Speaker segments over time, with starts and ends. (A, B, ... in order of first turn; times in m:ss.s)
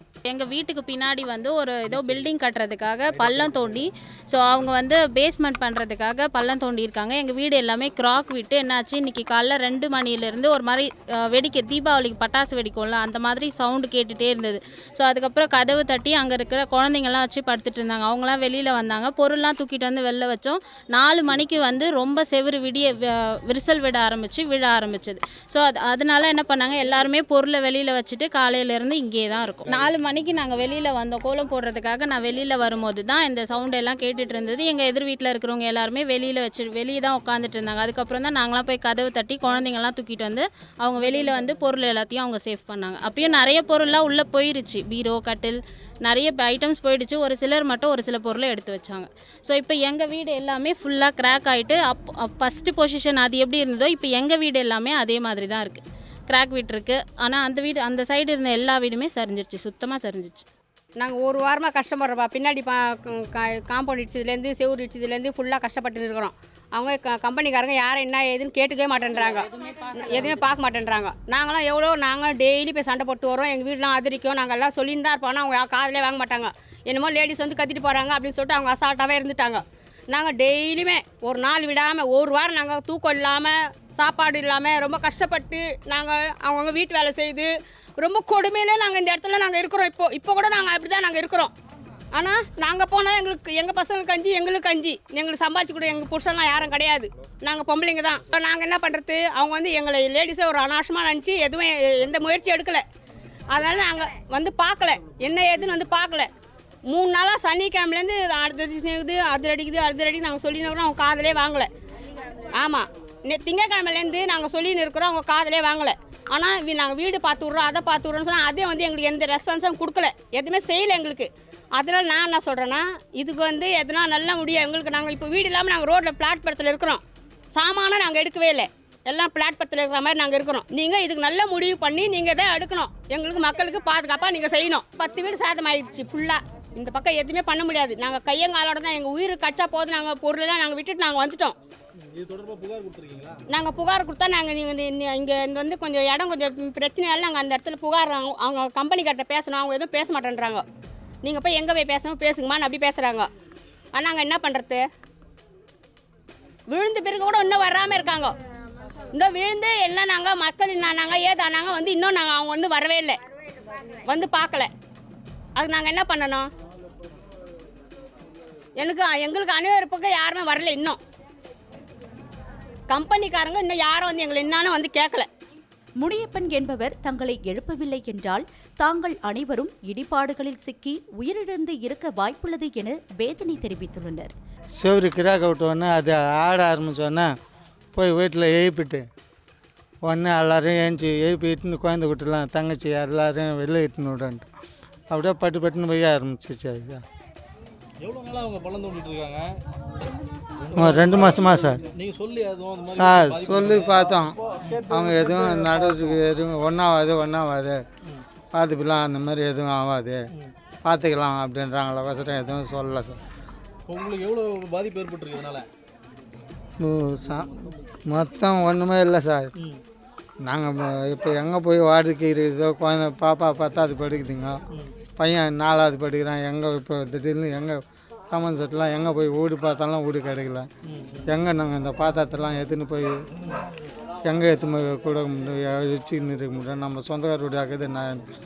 0:00.3-1:00.5 A
1:01.0-1:31.5 B
1:32.2-1:42.8 B
1:43.5-1:46.3 B
1:46.9-1:51.7 B
1:52.6-2:21.6 B
2:22.0-2:23.4 C
2:23.5-2:30.6 B
2:31.2-2:33.3 B
2:34.0-2:34.9 B
2:36.7-2:38.3 B
2:39.1-2:43.2 B
2:44.1-2:44.7 B
2:45.6-2:46.5 B
2:48.8-2:51.0 B
2:52.9-2:55.3 B
2:56.0-3:04.3 D
3:04.8-3:07.3 E
3:08.0-3:09.1 E
3:10.0-3:14.5 E
3:15.1-3:17.0 E
3:18.0-3:19.6 C
3:20.6-3:26.2 C
3:20.7-3:21.8 E
3:23.0-3:27.8 E
3:28.5-3:30.2 E
3:30.8-3:33.2 E
3:33.9-3:35.7 C
3:36.8-3:39.5 E
3:39.6-3:39.8 C
3:40.4-3:44.6 E
3:45.2-3:47.8 E
3:48.3-3:50.7 E
3:50.8-3:51.3 C
3:51.3-3:53.2 E
3:53.4-3:53.6 C
3:54.3-3:58.2 E